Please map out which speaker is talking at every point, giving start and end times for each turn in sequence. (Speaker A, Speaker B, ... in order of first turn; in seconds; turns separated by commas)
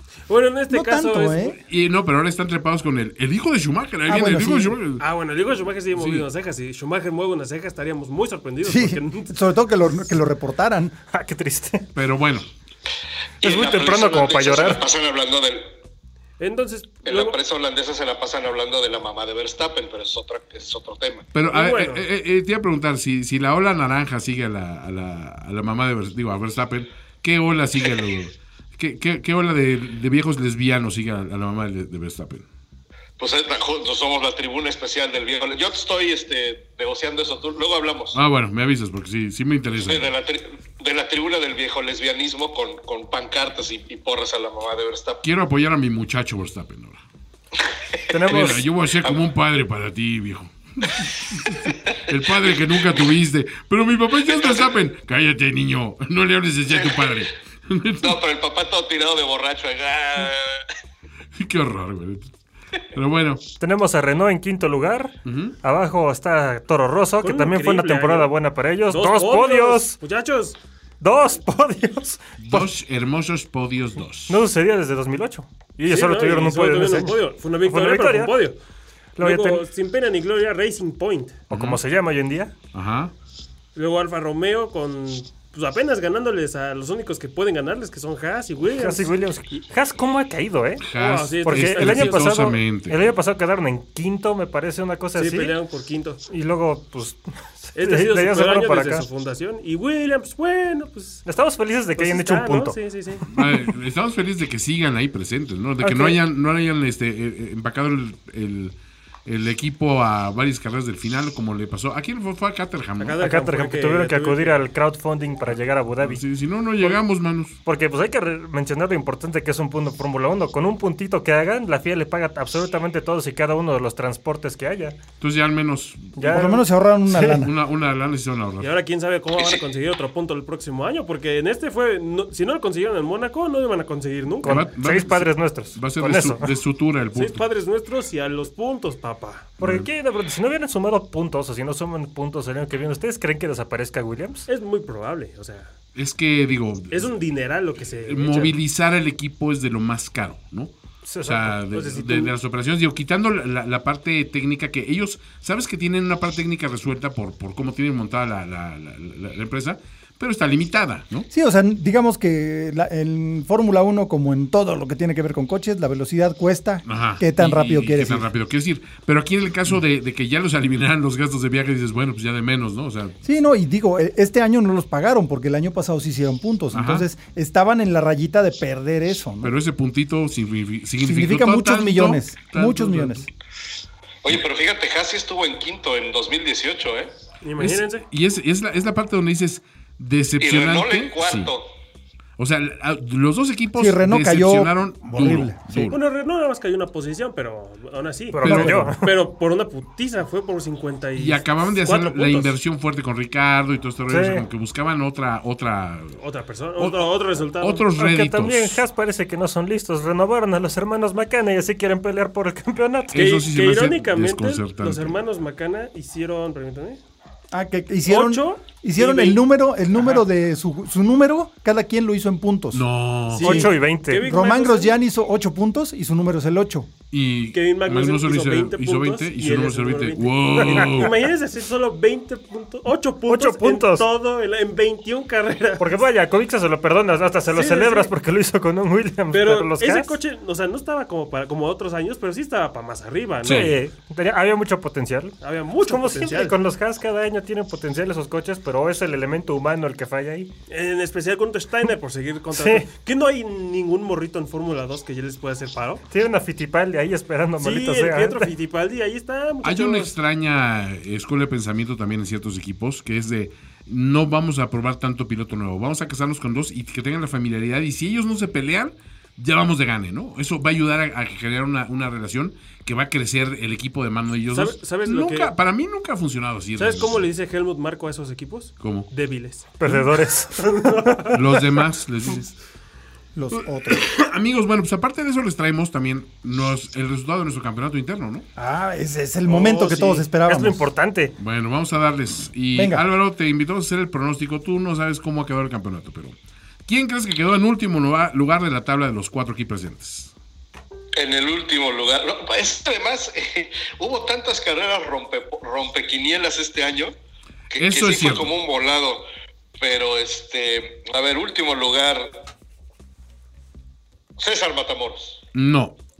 Speaker A: 0.3-1.6, Speaker B: 0.7-1.6, Speaker C: 1.6-5.0, Speaker B: 4.1-4.8, Speaker A: 5.0-9.3, Speaker C: 5.9-6.2, Speaker B: 8.6-11.0, Speaker D: 11.1-11.9, Speaker C: 11.9-12.5, Speaker E: 13.4-15.7, Speaker D: 13.4-14.8, Speaker A: 16.4-17.4, Speaker E: 17.0-21.2, Speaker C: 21.3-32.5, Speaker A: 21.5-22.0, Speaker E: 33.2-38.2, Speaker C: 38.1-40.1, Speaker E: 39.9-45.2, Speaker C: 45.2-47.0, Speaker E: 47.9-48.3, Speaker D: 48.1-48.6, Speaker C: 48.3-58.2, Speaker E: 51.6-52.6, Speaker E: 54.2-54.7, Speaker E: 56.7-57.3, Speaker E: 58.0-60.6, Speaker C: 61.4-62.3, Speaker C: 62.9-63.4, Speaker D: 63.6-70.0, Speaker C: 65.2-65.5, Speaker A: 67.2-68.3, Speaker A: 68.9-70.6, Speaker D: 71.0-72.7, Speaker C: 72.4-74.4, Speaker D: 74.3-78.3, Speaker A: 75.9-78.6, Speaker D: 79.2-79.6, Speaker A: 79.2-81.4, Speaker D: 81.5-82.5, Speaker C: 81.5-81.8, Speaker C: 82.7-83.1, Speaker A: 83.7-89.1, Speaker D: 88.6-90.9, Speaker C: 90.8-93.1, Speaker A: 90.9-92.4, Speaker D: 91.4-95.5, Speaker A: 95.1-96.2, Speaker D: 96.2-99.0, Speaker A: 97.8-101.2, Speaker D: 101.2-102.8, Speaker A: 102.0-103.3, Speaker C: 103.3-113.2, Speaker D: 105.8-106.2, Speaker A: 113.0-114.6, Speaker D: 113.2-116.2, Speaker C: 116.0-117.6, Speaker D: 117.6-125.0, Speaker C: 125.2-126.3, Speaker D: 126.2-126.6, Speaker B: 126.2-127.5, Speaker C: 127.1-128.7, Speaker A: 128.6-134.7, Speaker E: 129.3-129.6, Speaker D: 134.4-136.5, Speaker C: 134.4-137.4, Speaker A: 137.1-139.5, Speaker D: 139.6-144.5, Speaker C: 139.6-139.9, Speaker A: 144.5-145.7, Speaker C: 145.9-147.1, Speaker A: 146.9-148.5, Speaker C: 148.0-161.3, Speaker D: 151.1-151.5, Speaker A: 151.7-152.3, Speaker B: 161.3-168.3, Speaker C: 166.8-173.2, Speaker B: 173.2-179.5, Speaker C: 176.7-177.1, Speaker C: 179.4-183.3, Speaker B: 181.0-183.3, Speaker E: 184.2-187.1, Speaker A: 187.4-188.0, Speaker C: 187.6-191.5, Speaker E: 190.4-191.7, Speaker C: 192.4-196.0, Speaker B: 193.7-195.9, Speaker A: 195.9-202.6, Speaker D: 198.3-199.1, Speaker C: 198.4-198.9, Speaker C: 201.2-206.2, Speaker D: 204.1-204.4, Speaker A: 206.2-207.8, Speaker C: 206.8-208.8, Speaker D: 207.9-213.2, Speaker C: 213.1-215.2, Speaker A: 213.1-217.0, Speaker B: 217.5-222.8, Speaker A: 218.1-219.4, Speaker A: 219.9-220.2, Speaker C: 222.7-223.6, Speaker A: 223.3-225.0, Speaker D: 223.4-224.2, Speaker B: 223.4-226.9, Speaker C: 227.1-231.1, Speaker A: 227.5-236.0, Speaker D: 230.6-231.1, Speaker D: 233.3-234.1, Speaker D: 235.8-240.1, Speaker A: 237.5-238.1, Speaker A: 239.3-243.8, Speaker C: 243.4-243.7, Speaker D: 243.5-250.5, Speaker A: 245.4-246.6, Speaker A: 250.7-256.0, Speaker D: 252.5-252.8, Speaker D: 256.1-258.5, Speaker A: 257.6-260.1, Speaker C: 259.6-277.2, Speaker A: 274.5-275.5, Speaker A: 276.8-281.4, Speaker C: 278.8-279.1, Speaker D: 279.8-281.4, Speaker C: 281.3-282.5, Speaker B: 283.3-284.1, Speaker C: 283.5-288.4, Speaker B: 288.6-290.9, Speaker A: 289.4-290.3, Speaker D: 290.4-291.3, Speaker C: 291.4-300.3, Speaker B: 292.7-293.0, Speaker E: 301.1-307.1, Speaker E: 307.7-309.2, Speaker C: 307.8-308.5, Speaker E: 309.8-312.3, Speaker E: 314.4-315.4, Speaker C: 315.5-316.0